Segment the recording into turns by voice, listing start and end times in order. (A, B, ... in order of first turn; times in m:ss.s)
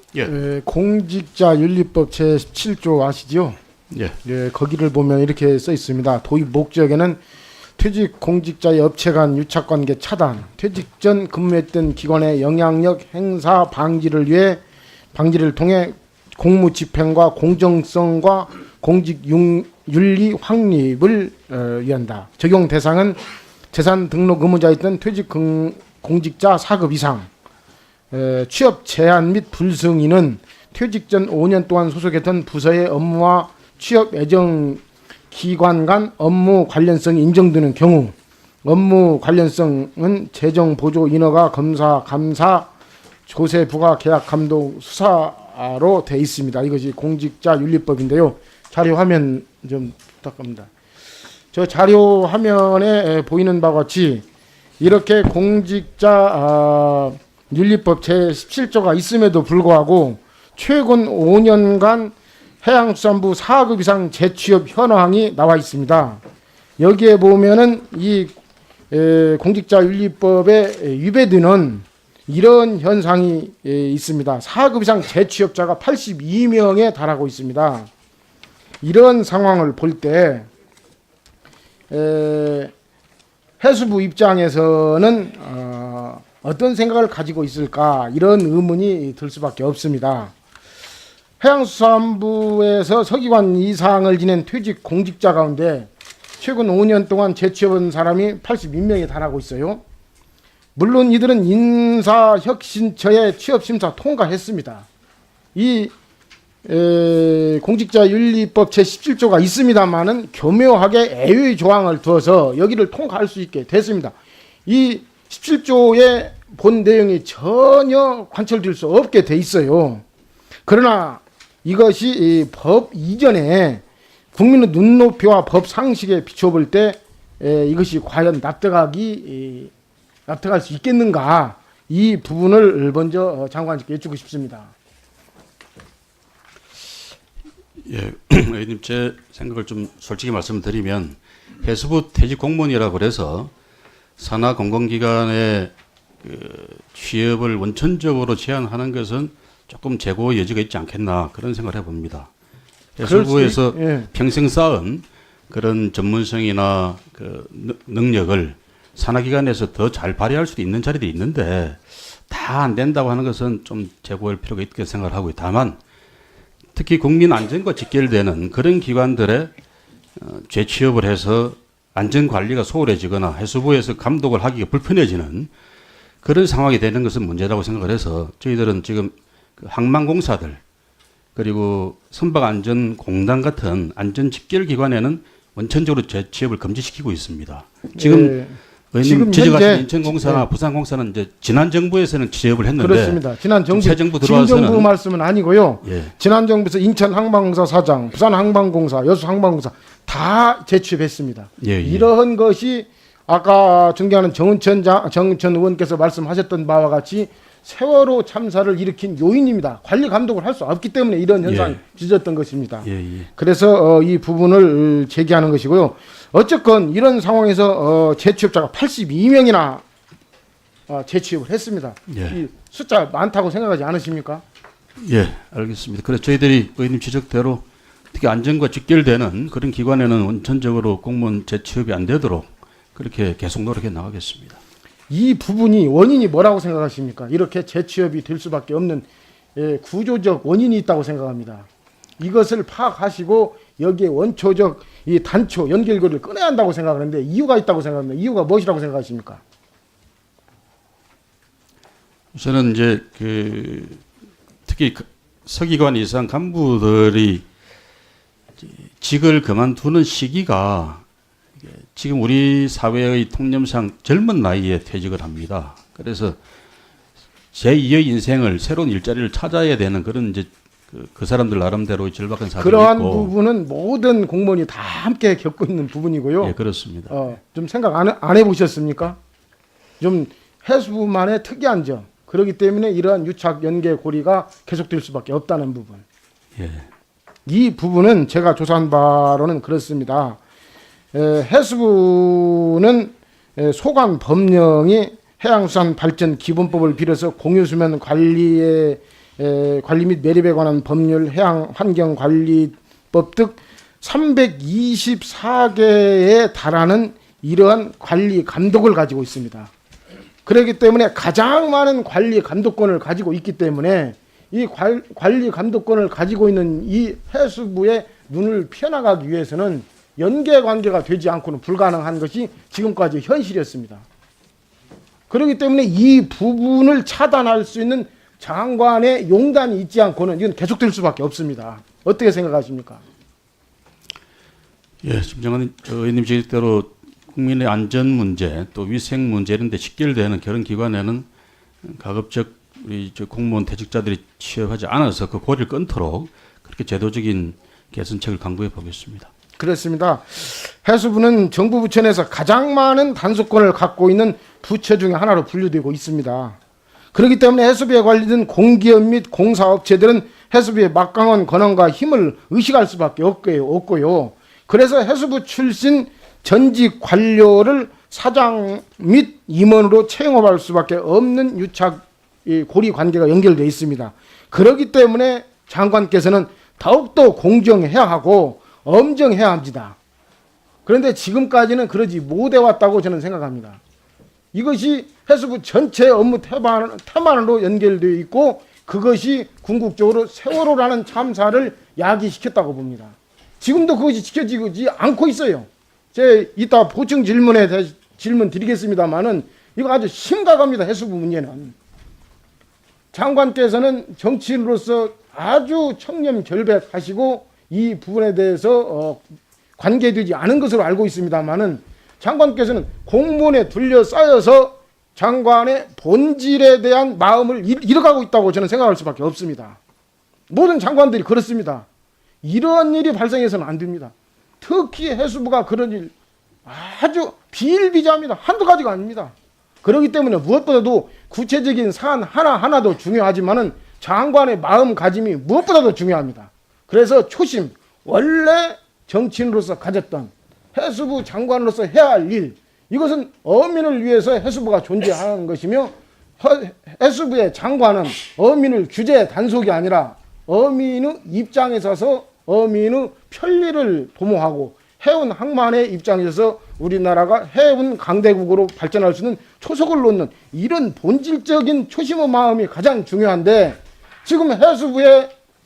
0:00.2-0:03.6 A
0:03.9-0:04.2 B
0:04.2-0:07.2 A
0:07.8-0:14.6 A
0:15.1-0:23.2 A
0:23.7-0:27.3 A
0:28.1-0:38.1 A
0:38.6-0:42.7 A
0:43.3-0:50.7 A
0:51.5-0:54.2 A
0:54.8-1:06.2 A
1:06.8-1:08.3 A
1:08.9-1:17.9 A
1:18.8-1:20.5 A
1:21.9-1:22.7 A
1:23.6-1:30.3 A
1:31.4-1:35.9 A
1:36.4-1:39.8 A
1:40.8-1:44.9 A
1:45.6-1:45.9 A
1:46.6-1:54.1 A
1:54.7-2:00.0 A
2:00.7-2:03.8 A
2:04.3-2:09.7 A
2:10.3-2:14.7 A
2:17.8-2:23.5 B
2:24.2-2:32.3 B
2:33.0-2:45.8 B
2:33.0-2:34.1 A
2:46.7-2:49.5 B
2:50.2-2:55.5 B
2:56.2-3:00.6 B
3:01.4-3:08.4 B
3:08.0-3:10.4 A
3:08.9-3:14.9 B
3:12.8-3:39.8 A
3:15.8-3:16.1 B
3:21.6-3:22.1 B
3:31.4-3:31.8 B
3:32.8-3:33.3 B
3:40.9-3:44.4 A
3:42.1-3:42.4 B
3:45.0-3:54.6 B
3:55.1-4:01.7 A
4:02.2-4:09.4 A
4:12.3-4:14.0 B
4:14.7-4:17.4 B
4:18.6-4:21.0 B
4:21.6-4:26.4 B
4:27.5-4:33.3 B
4:32.6-4:36.6 A
4:36.4-4:37.1 B
4:37.1-4:39.2 A
4:40.0-4:46.0 A
4:46.6-4:46.9 B
4:47.5-4:50.4 A
4:51.1-5:09.7 A
5:10.5-5:24.0 A
5:25.3-5:33.0 A
5:35.0-5:41.3 B
5:41.8-5:49.3 B
5:49.6-5:56.6 A
5:57.1-6:20.0 A
6:20.9-6:23.8 A
6:24.5-6:41.8 A
6:43.1-6:49.2 A
6:49.8-6:59.8 A
7:00.5-7:01.9 A
7:02.4-7:06.1 A
7:06.7-7:45.3 A